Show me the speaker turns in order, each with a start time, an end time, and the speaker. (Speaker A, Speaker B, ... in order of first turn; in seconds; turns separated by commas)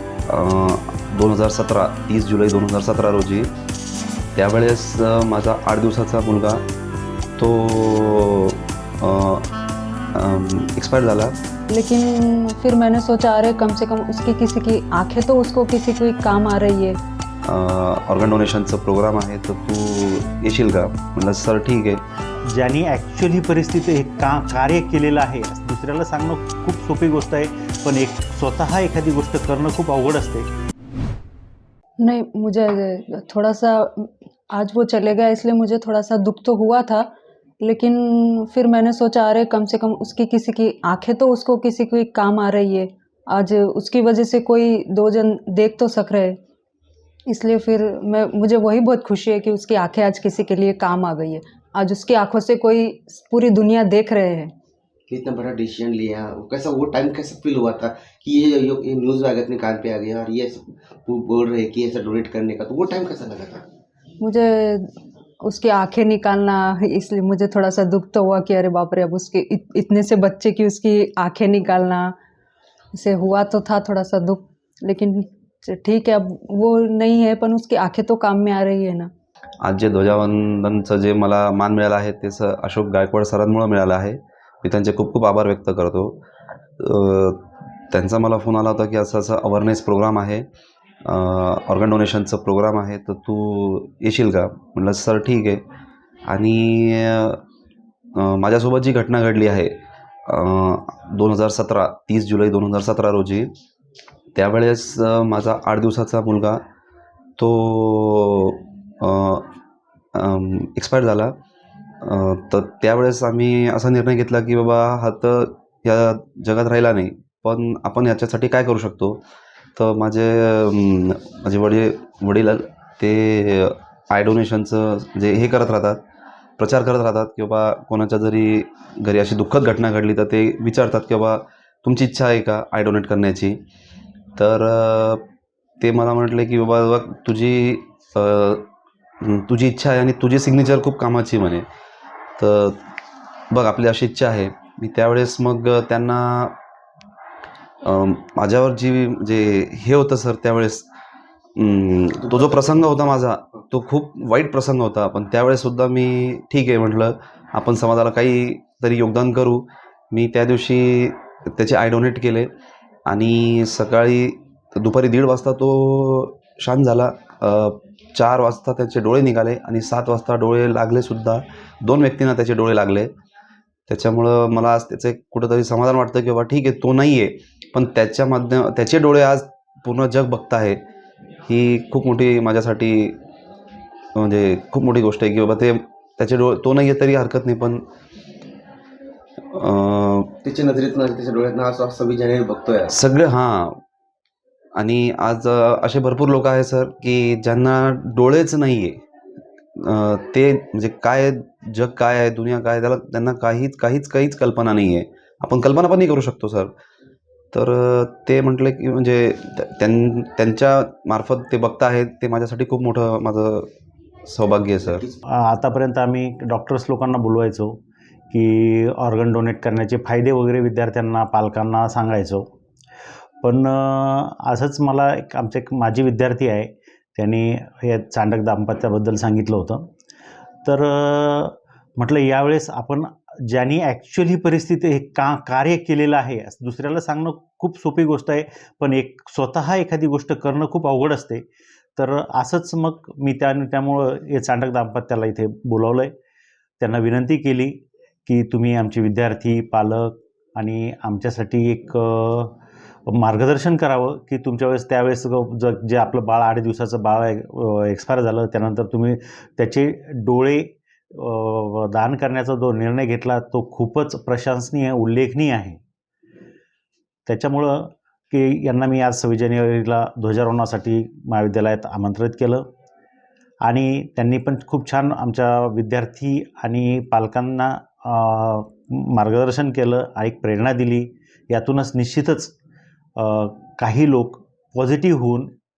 Speaker A: 0.3-3.5, Speaker A: 4.3-6.6, Speaker A: 7.4-9.5, Speaker A: 10.2-11.4, Speaker B: 11.7-17.0, Speaker A: 17.4-22.0, Speaker C: 22.5-30.5, Speaker B: 32.0-37.1, Speaker B: 37.6-46.4, Speaker B: 47.3-54.5, Speaker D: 55.1-63.6, Speaker B: 64.2-64.9, Speaker B: 65.4-72.2, Speaker B: 72.9-79.1, Speaker A: 79.6-86.2, Speaker A: 86.8-90.5, Speaker A: 91.0-95.6, Speaker A: 96.3-97.4, Speaker A: 98.2-103.5, Speaker A: 104.3-106.6, Speaker A: 107.4-109.5, Speaker A: 110.1-111.4, Speaker A: 112.0-119.2, Speaker A: 119.8-126.0, Speaker A: 126.6-133.6, Speaker A: 134.4-135.2, Speaker A: 135.8-138.7, Speaker A: 139.2-141.7, Speaker A: 142.4-142.8, Speaker A: 143.5-146.6, Speaker A: 147.8-150.9, Speaker A: 151.6-162.5, Speaker A: 163.1-173.1, Speaker A: 173.9-180.8, Speaker A: 181.5-183.2, Speaker A: 184.2-187.8, Speaker A: 189.5-190.4, Speaker D: 190.4-192.9, Speaker A: 192.9-193.8, Speaker A: 194.8-199.0, Speaker A: 199.8-206.7, Speaker A: 207.5-213.7, Speaker A: 214.3-215.1, Speaker C: 215.3-217.8, Speaker C: 218.3-222.5, Speaker C: 223.4-229.9, Speaker C: 230.6-246.1, Speaker C: 246.8-252.6, Speaker C: 253.1-265.8, Speaker C: 267.3-272.7, Speaker C: 273.6-282.6, Speaker C: 283.2-285.5